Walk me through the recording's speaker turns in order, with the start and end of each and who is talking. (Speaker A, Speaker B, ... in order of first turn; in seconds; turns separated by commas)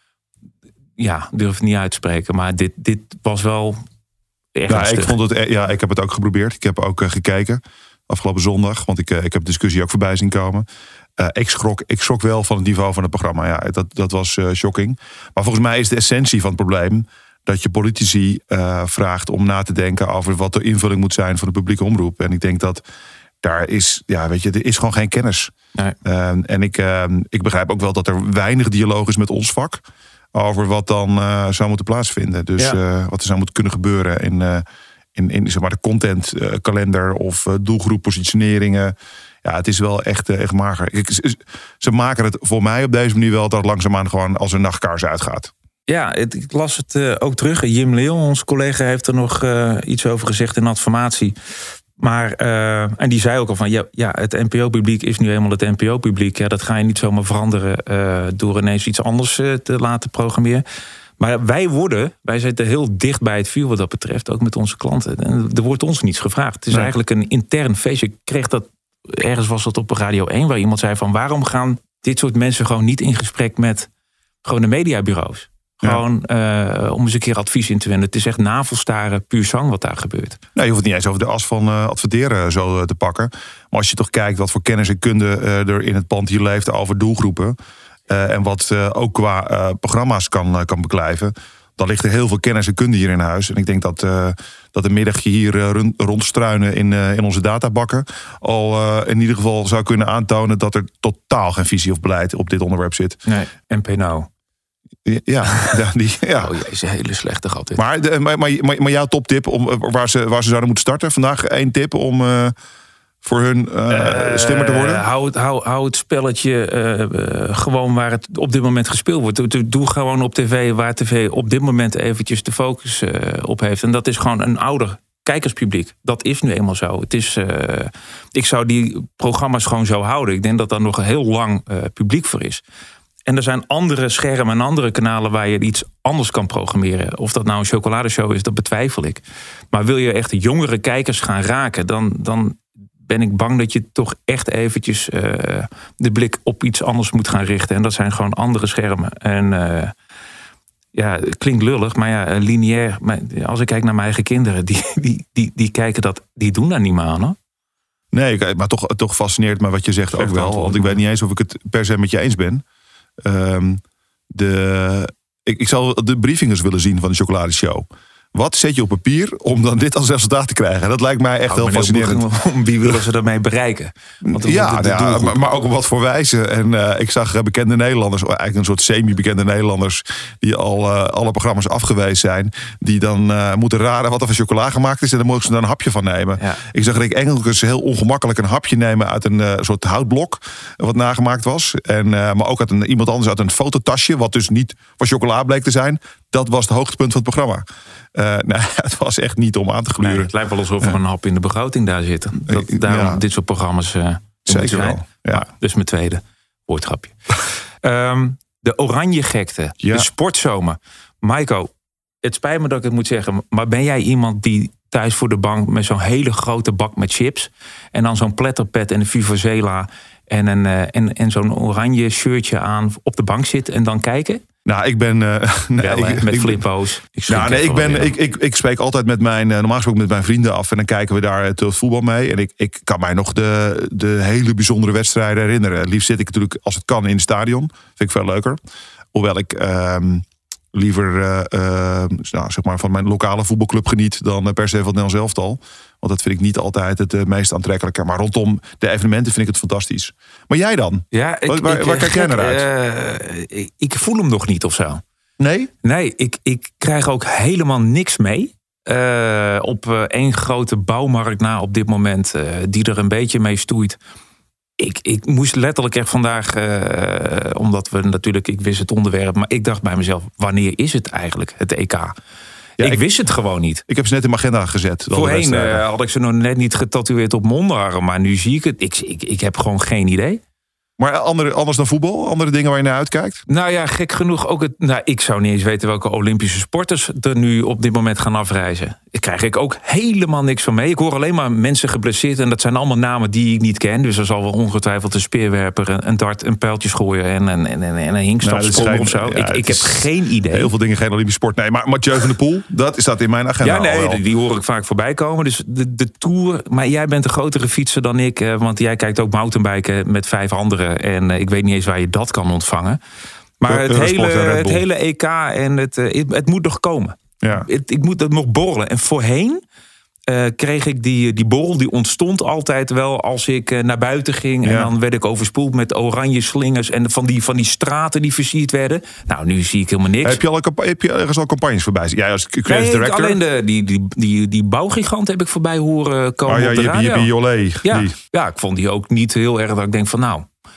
Speaker A: 1.0-3.8, Speaker A: 4.5-5.2, Speaker B: 4.7-10.7, Speaker B: 11.2-22.8, Speaker B: 23.4-29.8, Speaker B: 30.4-34.6, Speaker B: 35.1-45.5, Speaker A: 45.9-51.3, Speaker A: 52.0-60.6, Speaker A: 61.2-73.9, Speaker A: 74.4-80.4, Speaker B: 80.5-87.6, Speaker B: 88.1-103.2, Speaker A: 103.3-104.3, Speaker B: 105.1-106.5, Speaker A: 106.4-107.8, Speaker B: 107.8-112.5, Speaker B: 113.2-115.0, Speaker A: 113.9-132.6, Speaker A: 133.3-139.2, Speaker A: 139.7-149.9, Speaker A: 150.9-157.4, Speaker B: 158.1-162.6, Speaker A: 160.1-161.0, Speaker B: 163.2-172.2, Speaker A: 171.5-175.4, Speaker B: 174.2-201.0, Speaker A: 200.0-207.2, Speaker B: 202.5-203.2, Speaker B: 204.5-205.5, Speaker A: 207.8-211.7, Speaker B: 209.8-210.1, Speaker A: 212.2-224.4, Speaker B: 224.7-226.6, Speaker A: 225.8-228.1, Speaker B: 227.3-238.6, Speaker B: 239.1-252.7, Speaker A: 251.1-255.0, Speaker B: 255.4-255.7, Speaker A: 255.8-264.0, Speaker A: 264.8-272.1, Speaker A: 272.8-273.8, Speaker B: 273.9-275.8, Speaker A: 275.1-280.4, Speaker B: 281.0-283.4, Speaker A: 283.5-300.7, Speaker B: 298.4-304.2, Speaker A: 303.6-313.0, Speaker A: 313.6-319.6, Speaker B: 313.6-314.8, Speaker A: 320.3-330.4, Speaker B: 324.6-324.9, Speaker B: 330.2-333.4, Speaker A: 332.7-337.3, Speaker B: 336.5-338.1, Speaker A: 337.8-340.5